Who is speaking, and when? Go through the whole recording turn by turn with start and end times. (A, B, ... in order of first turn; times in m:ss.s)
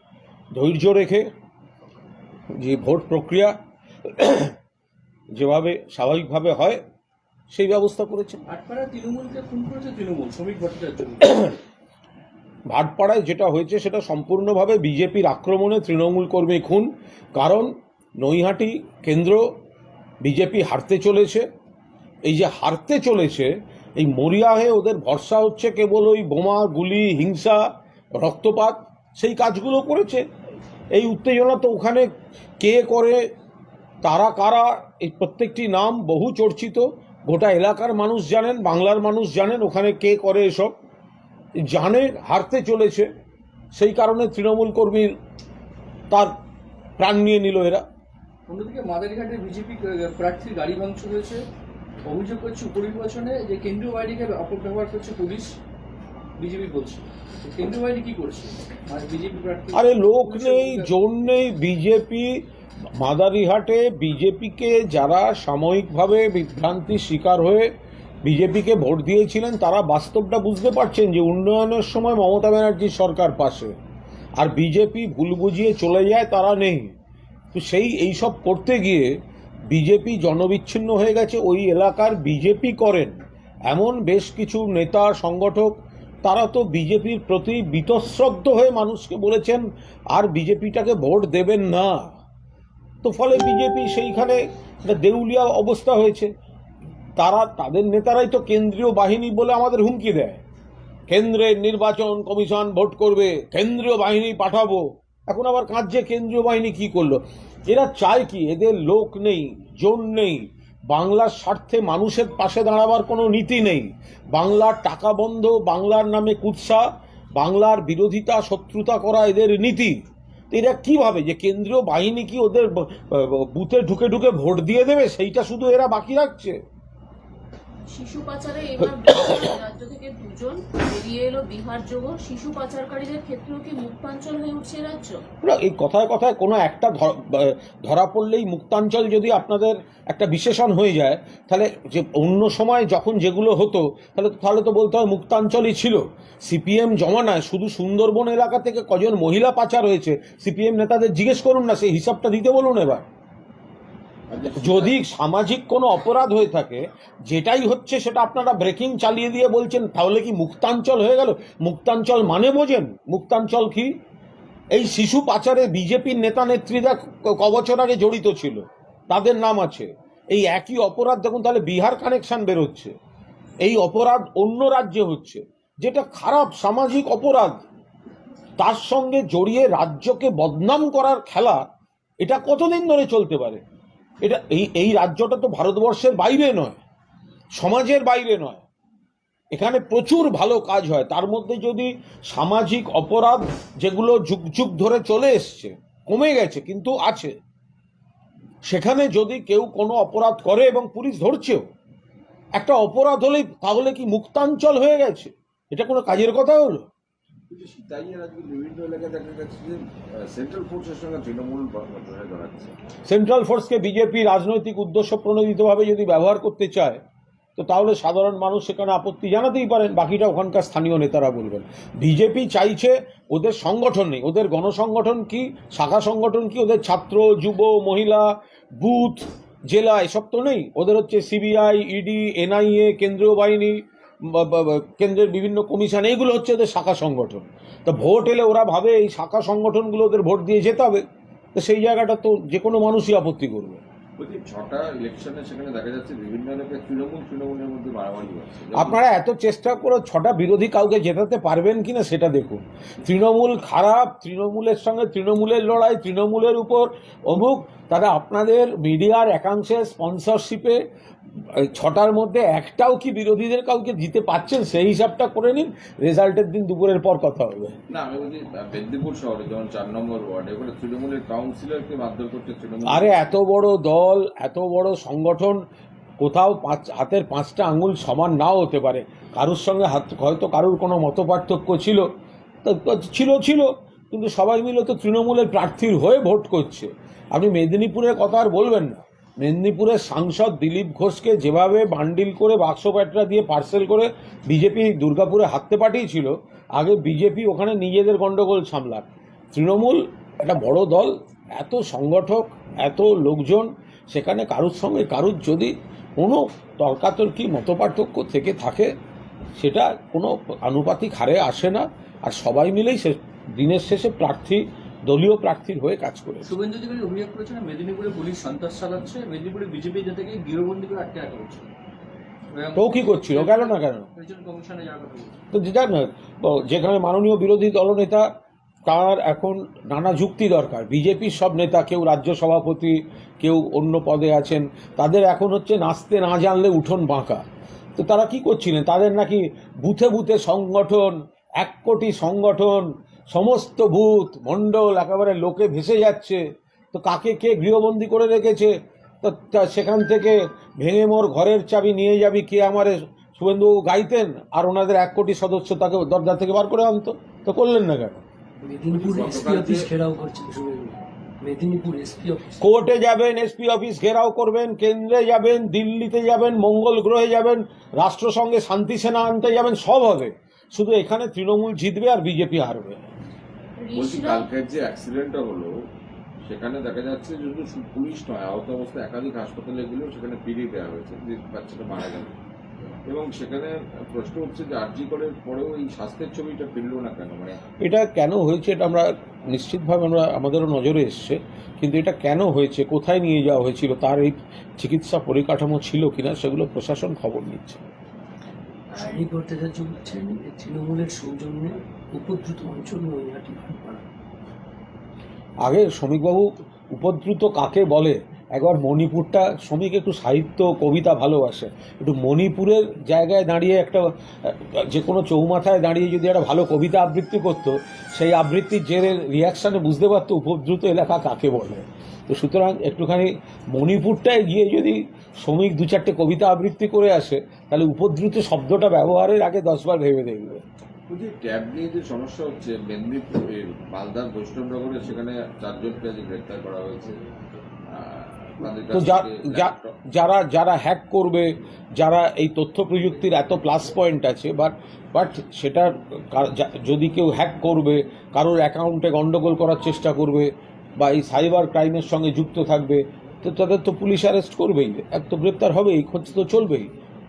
0:00.5-0:01.3 A
0:02.5-0:04.6 A
0:05.3-0:06.8 A
0:07.5-0:08.4 A
0:08.5-0:11.6 B
0:12.7-0:19.6 A
0:20.2-0:21.5 A
0:22.2-0:30.3 A
0:30.9-0:33.2 A
0:34.0-0:40.8 A
0:41.6-0:43.1 A
0:43.7-0:45.2 A
0:46.1-0:46.4 A
0:47.0-0:47.9 A
0:48.5-0:51.4 B
0:52.0-0:55.6 B
0:56.4-1:00.9 B
0:59.7-1:13.8 A
1:14.4-1:17.0 A
1:17.5-1:19.1 A
1:19.7-1:23.2 A
1:23.7-1:32.2 A
1:33.0-1:36.3 A
1:37.2-1:40.4 A
1:41.1-2:06.6 A
2:07.9-2:15.2 C
2:15.4-2:33.0 A
2:34.3-2:35.0 D
2:34.6-2:44.0 A
2:44.7-2:52.9 A
2:53.6-2:57.6 A
2:58.6-3:01.7 A
3:02.2-3:03.6 A
3:04.2-3:06.8 A
3:07.6-3:08.6 A
3:09.5-3:17.3 A
3:18.6-3:21.6 A
3:22.6-3:26.8 A
3:27.5-3:32.8 D
3:33.0-3:37.0 A
3:37.6-4:01.0 A
4:01.6-4:03.8 A
4:04.2-4:09.0 D
4:08.7-4:20.8 A
4:21.4-4:27.8 A
4:27.9-4:33.4 D
4:32.9-4:35.6 A
4:36.2-4:42.1 A
4:42.6-5:08.9 A
5:09.6-5:16.5 A
5:16.4-5:21.7 B
5:22.5-5:25.4 B
5:22.8-5:24.1 A
5:25.5-5:28.3 A
5:28.9-5:37.4 A
5:38.0-5:58.2 A
5:58.6-6:02.6 E
5:58.9-5:59.9 D
6:02.6-6:13.1 A
6:13.8-6:14.5 C
6:14.0-6:15.7 D
6:16.5-6:22.3 D
6:23.1-6:27.6 D
6:27.8-6:37.8 A
6:38.9-6:39.2 C
6:38.9-6:44.0 E
6:45.6-7:10.6 A
7:11.1-7:17.2 D
7:17.9-7:19.9 D
7:18.9-7:36.9 A